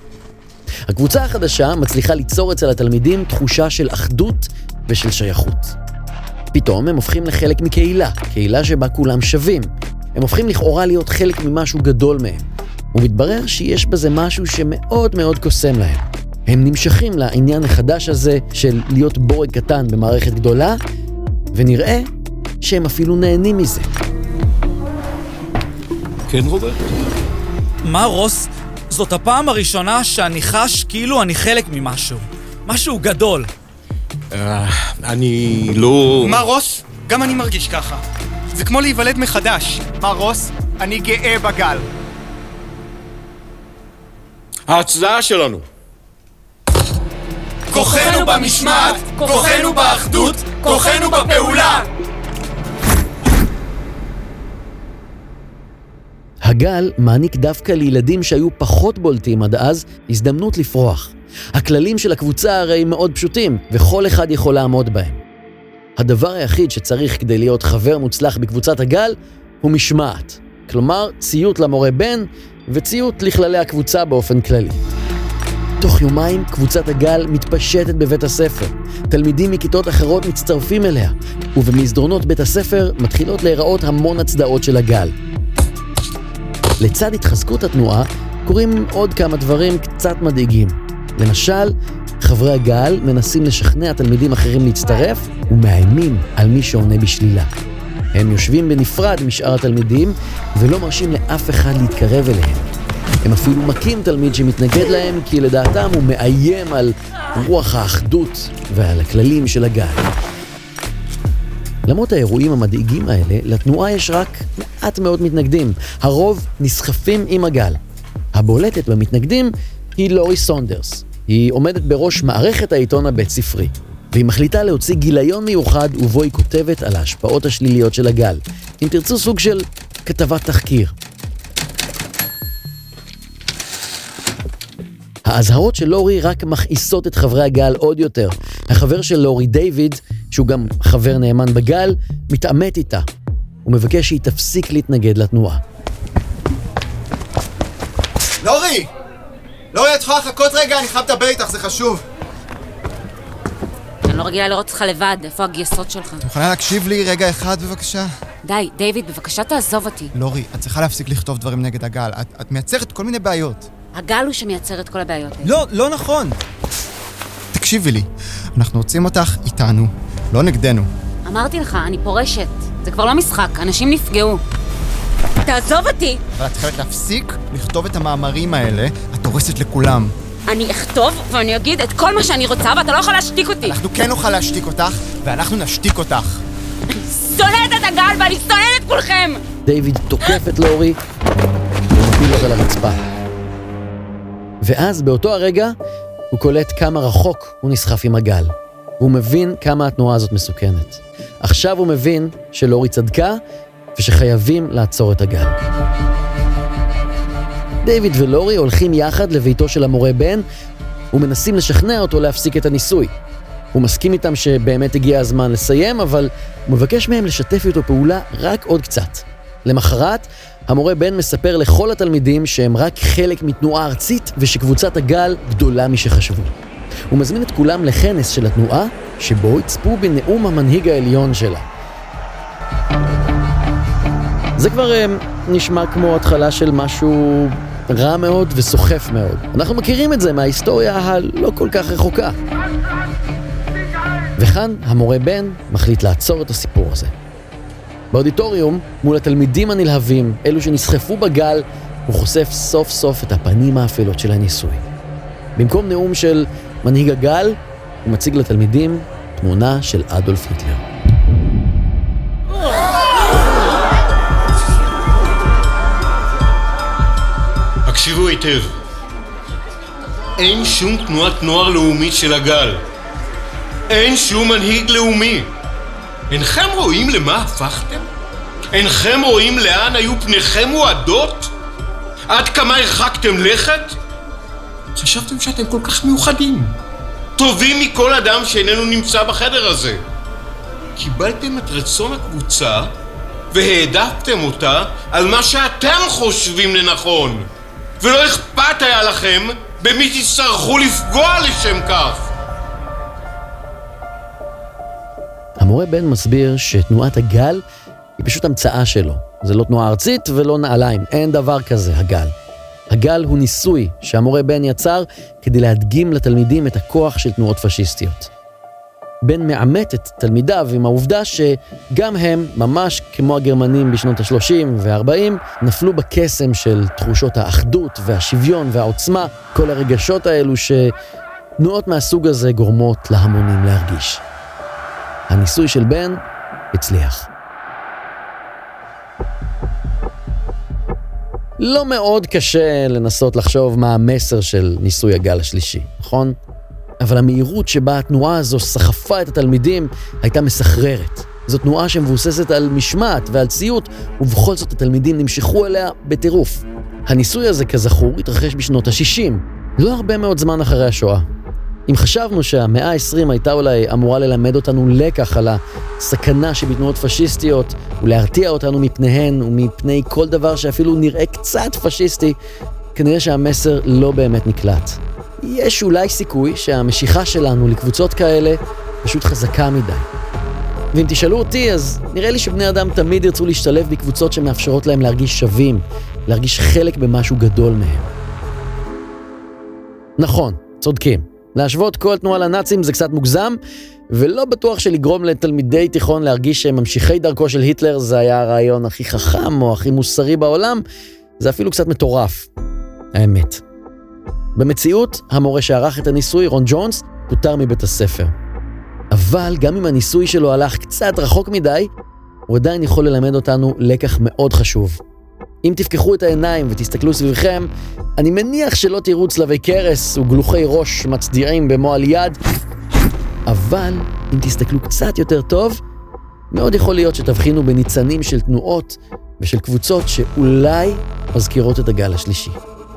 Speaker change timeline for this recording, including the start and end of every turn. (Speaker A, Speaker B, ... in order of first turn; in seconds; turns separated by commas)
Speaker A: 0.9-5.8, Speaker A: 6.5-20.8, Speaker A: 21.5-22.1, Speaker A: 22.6-23.9, Speaker B: 26.3-26.9, Speaker C: 27.9-33.5, Speaker B: 34.3-36.4, Speaker D: 36.3-37.9, Speaker D: 38.5-41.9, Speaker B: 44.7-45.6, Speaker D: 47.7-51.6, Speaker A: 56.4-65.2, Speaker A: 66.0-74.8, Speaker A: 75.8-85.1, Speaker A: 86.8-97.5, Speaker A: 98.1-102.7, Speaker A: 103.2-110.1, Speaker A: 111.8-117.8, Speaker A: 118.3-130.9, Speaker A: 135.2-143.1, Speaker A: 143.7-145.6, Speaker D: 148.4-148.9, Speaker D: 149.7-152.0, Speaker E: 154.0-156.2, Speaker D: 156.2-158.1, Speaker E: 158.4-160.1, Speaker D: 160.1-163.7, Speaker E: 163.9-165.6, Speaker D: 165.4-166.4, Speaker D: 167.5-170.9, Speaker E: 171.2-174.4, Speaker E: 175.4-176.2, Speaker D: 176.4-180.1, Speaker E: 180.5-183.8, Speaker D: 183.6-186.4, Speaker E: 186.9-189.4, Speaker A: 189.7-191.0, Speaker A: 191.9-193.0, Speaker A: 194.6-195.7, Speaker A: 196.3-203.4, Speaker A: 203.9-205.7, Speaker A: 207.8-210.4, Speaker A: 211.1-213.1, Speaker A: 213.7-226.5, Speaker A: 227.1-231.7, Speaker A: 234.6-242.4, Speaker A: 244.4-247.1, Speaker A: 248.1-254.8, Speaker A: 255.6-260.8, Speaker B: 267.9-268.7, Speaker B: 270.4-272.8, Speaker B: 273.9-275.5, Speaker B: 276.3-278.1, Speaker B: 278.7-281.5, Speaker B: 282.3-284.0, Speaker B: 284.9-286.7, Speaker B: 287.4-290.0, Speaker B: 290.9-292.9, Speaker B: 293.5-297.5, Speaker B: 298.0-302.3, Speaker A: 305.6-307.6, Speaker A: 308.2-312.3, Speaker A: 312.9-318.3, Speaker A: 319.2-330.9, Speaker A: 331.6-334.2, Speaker A: 335.3-336.2, Speaker A: 336.7-337.3, Speaker A: 341.6-346.4, Speaker A: 347.0-361.2, Speaker A: 361.9-372.4, Speaker A: 372.9-380.1, Speaker A: 380.9-388.1, Speaker A: 390.2-393.6, Speaker A: 394.1-400.8, Speaker A: 401.4-402.5, Speaker A: 403.1-403.6, Speaker A: 404.6-408.3, Speaker A: 409.1-411.9, Speaker A: 412.5-415.0, Speaker A: 415.6-422.4, Speaker A: 423.5-425.8, Speaker A: 426.5-432.6